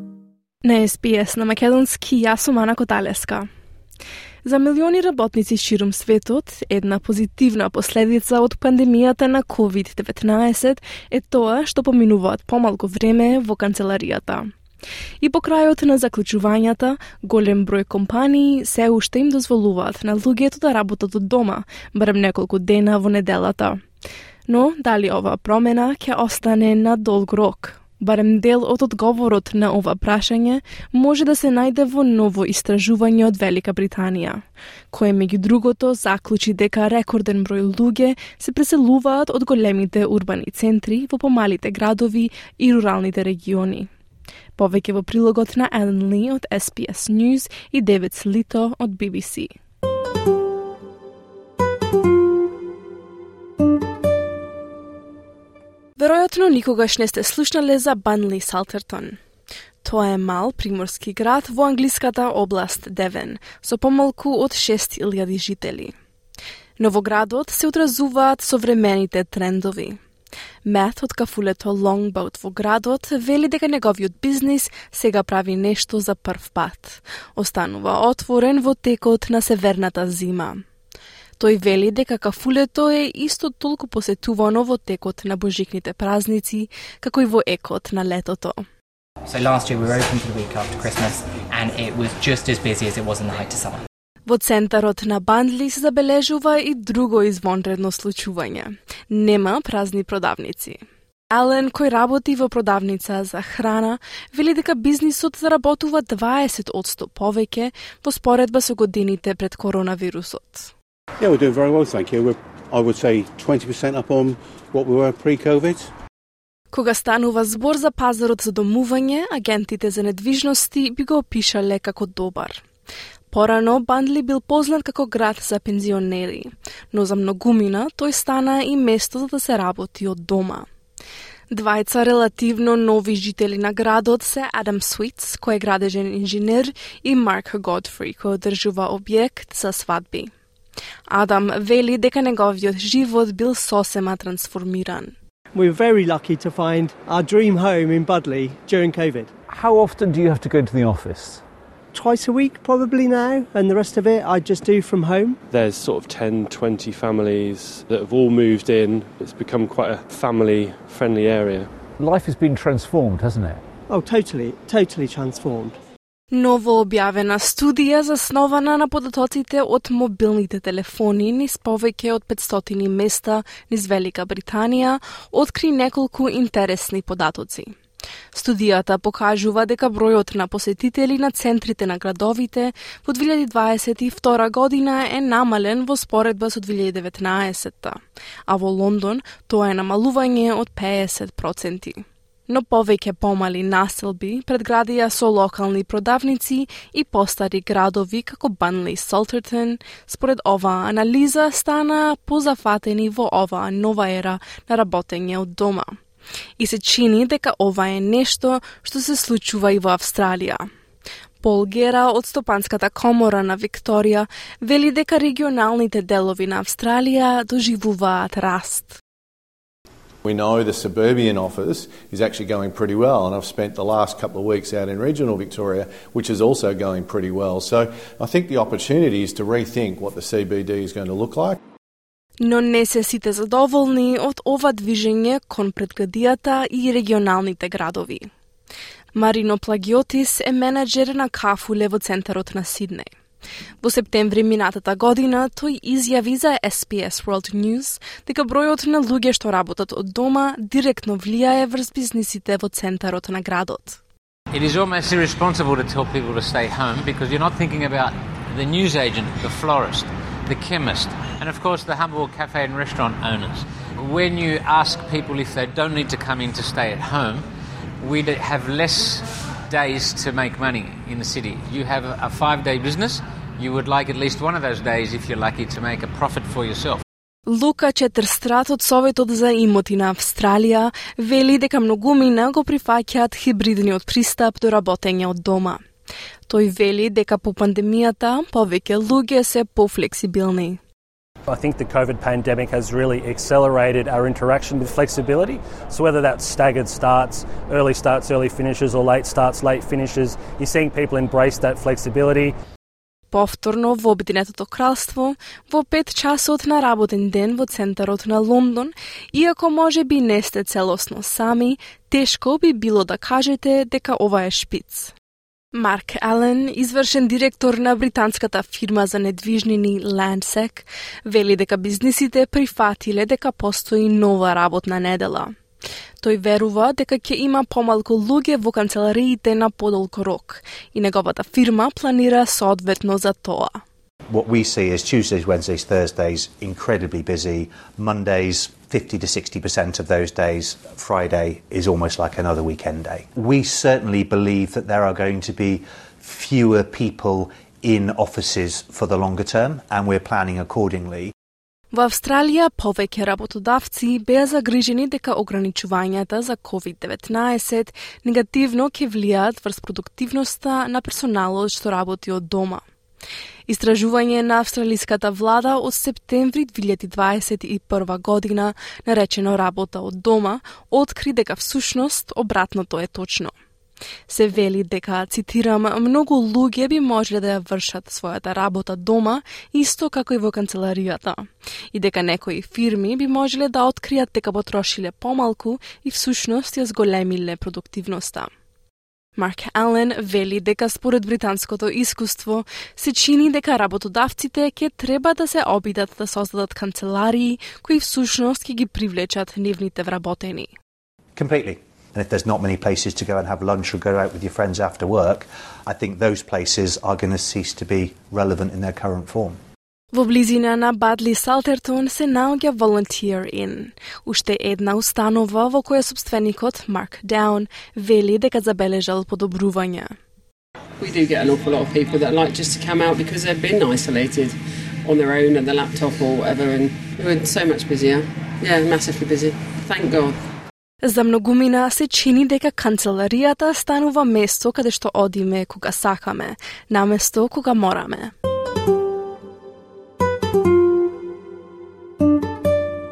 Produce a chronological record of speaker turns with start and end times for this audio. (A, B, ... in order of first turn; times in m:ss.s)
0:00.6-0:03.5 A
0:04.4-0:14.5 A
0:15.2-0:23.8 A
0:24.5-0:43.9 A
0:44.6-0:49.5 A
0:56.0-0:59.2 A
0:59.8-1:05.9 A
1:06.8-1:10.0 A
1:10.6-1:20.6 A
1:21.4-1:28.6 A
1:29.2-1:33.8 B
1:34.3-1:40.8 A
1:41.3-1:50.7 A
1:51.2-1:55.9 C
1:56.7-2:02.6 A
2:03.3-2:10.7 A
2:11.5-2:20.3 A
2:21.1-2:25.1 A
2:25.5-2:29.3 D
2:29.5-2:31.4 E
2:31.9-2:35.4 D
2:35.5-2:41.7 F
2:42.0-2:43.6 E
2:43.9-2:45.7 D
2:46.3-2:57.7 A
2:58.3-3:25.9 A
3:26.6-3:30.7 A
3:31.4-3:39.0 A
3:40.2-3:51.6 G
3:52.4-3:58.3 A
3:59.1-4:03.1 A
4:03.8-4:14.0 A
4:14.5-4:27.4 H
4:28.0-4:37.0 H
4:37.5-4:45.8 A
4:46.5-4:50.8 A
4:51.5-5:02.5 I
5:03.3-5:15.1 A
5:15.7-5:25.5 A
5:26.2-5:33.8 A
5:34.3-5:51.3 J
5:51.9-6:02.8 A
6:03.7-6:13.5 A
6:14.3-6:28.5 A
6:29.4-6:40.7 A
6:41.4-6:49.6 J
6:50.1-7:00.1 A
7:01.0-7:10.4 K
7:11.0-7:18.3 A